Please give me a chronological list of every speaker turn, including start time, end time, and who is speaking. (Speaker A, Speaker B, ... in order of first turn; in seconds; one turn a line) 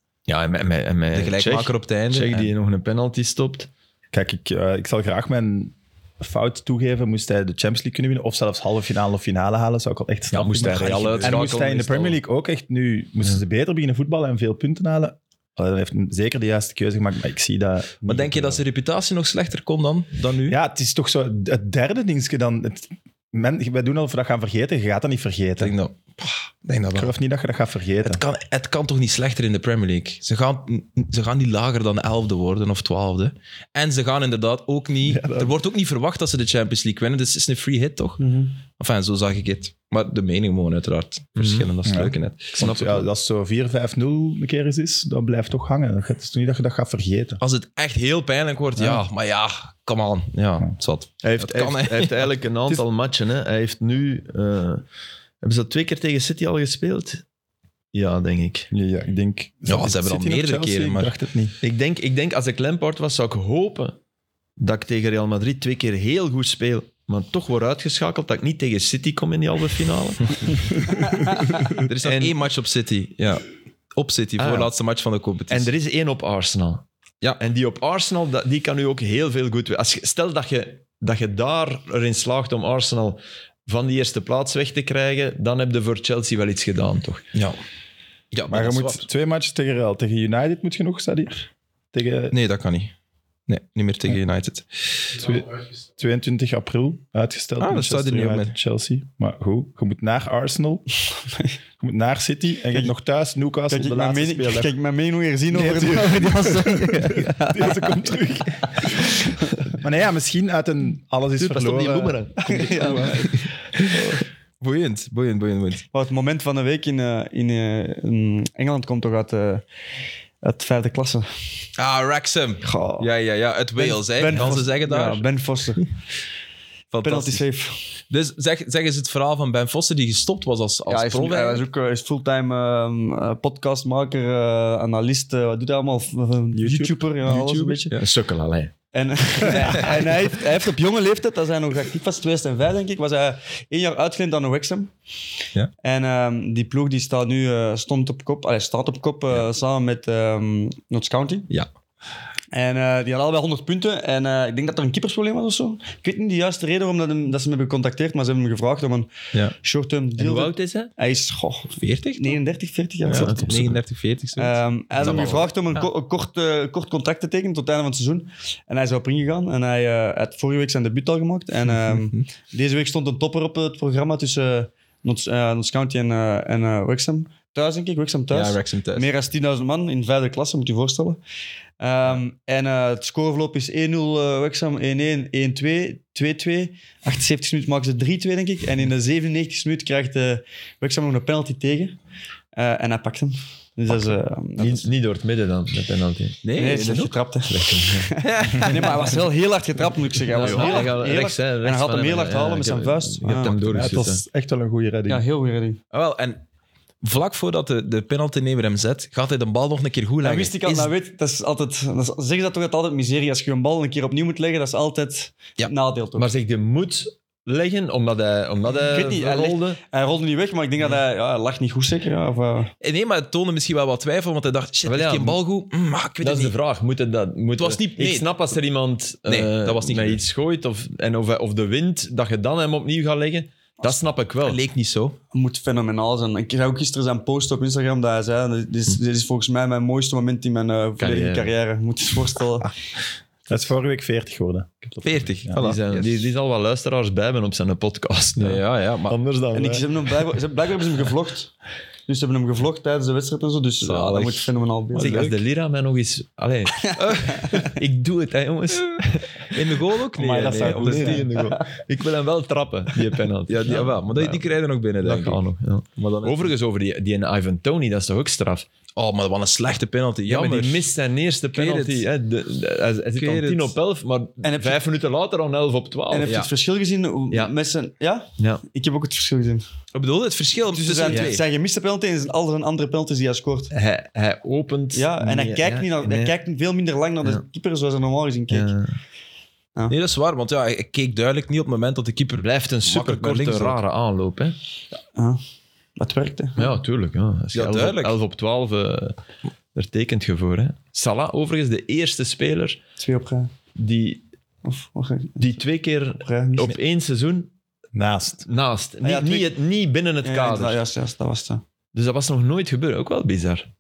Speaker A: 0.3-3.7
Speaker B: 1.1-2.5
Speaker C: 4.1-18.6
Speaker A: 10.3-12.2
Speaker B: 10.3-11.4
Speaker B: 18.1-20.6
Speaker C: 20.5-25.7
Speaker B: 25.6-27.1
Speaker C: 26.9-28.2
Speaker B: 28.0-38.2
Speaker C: 35.0-35.5
Speaker D: 38.2-38.5
Speaker B: 38.8-42.8
Speaker A: 41.4-41.7
Speaker C: 41.9-47.4
Speaker A: 42.6-43.0
Speaker B: 47.4-52.3
Speaker C: 48.8-49.0
Speaker A: 51.2-54.8
Speaker A: 55.4-57.2
Speaker A: 57.9-58.7
Speaker C: 58.7-61.5
Speaker B: 59.7-61.1
Speaker A: 61.6-64.0
Speaker A: 64.6-72.4
Speaker D: 71.1-71.5
Speaker B: 71.7-75.7
Speaker A: 74.4-74.7
Speaker A: 75.5-76.8
Speaker A: 77.4-87.3
Speaker B: 87.3-87.6
Speaker B: 88.3-89.0
Speaker C: 88.5-92.4
Speaker B: 92.3-92.9
Speaker B: 93.5-95.1
Speaker C: 95.1-100.9
Speaker B: 97.6-98.5
Speaker D: 101.3-101.5
Speaker C: 101.8-104.7
Speaker D: 103.7-109.5
Speaker C: 105.5-109.0
Speaker C: 109.8-112.2
Speaker A: 111.4-114.2
Speaker D: 112.5-113.4
Speaker B: 114.6-115.8
Speaker D: 115.9-119.6
Speaker D: 120.4-121.3
Speaker B: 121.8-125.3
Speaker D: 122.6-123.1
Speaker D: 123.8-125.8
Speaker B: 126.9-127.4
Speaker D: 127.0-127.8
Speaker B: 128.1-131.6
Speaker D: 130.9-137.9
Speaker C: 136.5-137.7
Speaker B: 137.2-138.1
Speaker A: 137.9-138.7
Speaker D: 138.9-144.9
Speaker D: 145.8-151.5
Speaker D: 152.5-163.4
Speaker A: 160.2-160.9
Speaker B: 161.8-162.4
Speaker B: 163.1-165.4
Speaker A: 163.1-163.8
Speaker D: 164.4-181.2
Speaker A: 165.0-165.5
Speaker B: 178.3-179.1
Speaker D: 181.8-191.9
Speaker D: 192.6-194.9
Speaker A: 194.6-196.4
Speaker B: 196.4-197.2
Speaker D: 196.6-203.6
Speaker A: 197.5-198.1
Speaker B: 198.2-199.2
Speaker A: 200.3-204.2
Speaker B: 200.3-200.9
Speaker C: 203.7-205.2
Speaker D: 205.1-205.8
Speaker B: 205.9-206.4
Speaker B: 207.0-210.9
Speaker D: 210.2-216.3
Speaker A: 216.2-219.8
Speaker D: 218.8-222.7
Speaker B: 222.8-226.5
Speaker A: 224.8-225.4
Speaker A: 226.2-234.6
Speaker B: 227.6-228.3
Speaker B: 229.3-230.2
Speaker B: 234.4-235.2
Speaker D: 235.3-242.7
Speaker A: 241.0-241.5
Speaker C: 243.5-245.6
Speaker B: 245.0-246.2
Speaker A: 245.5-250.3
Speaker B: 248.4-249.2
Speaker D: 249.5-251.5
Speaker D: 252.1-255.2
Speaker B: 253.8-255.4
Speaker A: 254.9-264.4
Speaker D: 256.9-257.6
Speaker B: 257.1-257.4
Speaker B: 259.5-261.3
Speaker C: 260.2-261.3
Speaker D: 261.4-261.7
Speaker B: 263.5-265.4
Speaker A: 265.0-268.7
Speaker B: 266.0-266.5
Speaker B: 269.0-270.9
Speaker A: 270.3-276.4
Speaker B: 271.5-272.1
Speaker B: 273.2-273.7
Speaker D: 274.4-274.8
Speaker D: 276.1-279.6
Speaker B: 276.2-276.5
Speaker B: 279.9-281.4
Speaker D: 280.7-283.7
Speaker A: 281.1-281.4
Speaker A: 283.7-286.3
Speaker D: 284.9-288.7
Speaker A: 288.5-289.0
Speaker B: 289.9-293.8
Speaker A: 292.4-294.6
Speaker D: 296.0-296.7
Speaker A: 296.6-299.2
Speaker B: 297.5-298.2
Speaker A: 299.7-302.8
Speaker D: 303.0-303.5
Speaker A: 303.8-304.2
Speaker D: 304.6-305.6
Speaker A: 305.4-307.5
Speaker D: 306.2-306.8
Speaker C: 307.9-308.5
Speaker A: 308.4-310.8
Speaker D: 309.0-309.5
Speaker D: 310.2-311.6
Speaker A: 311.9-313.7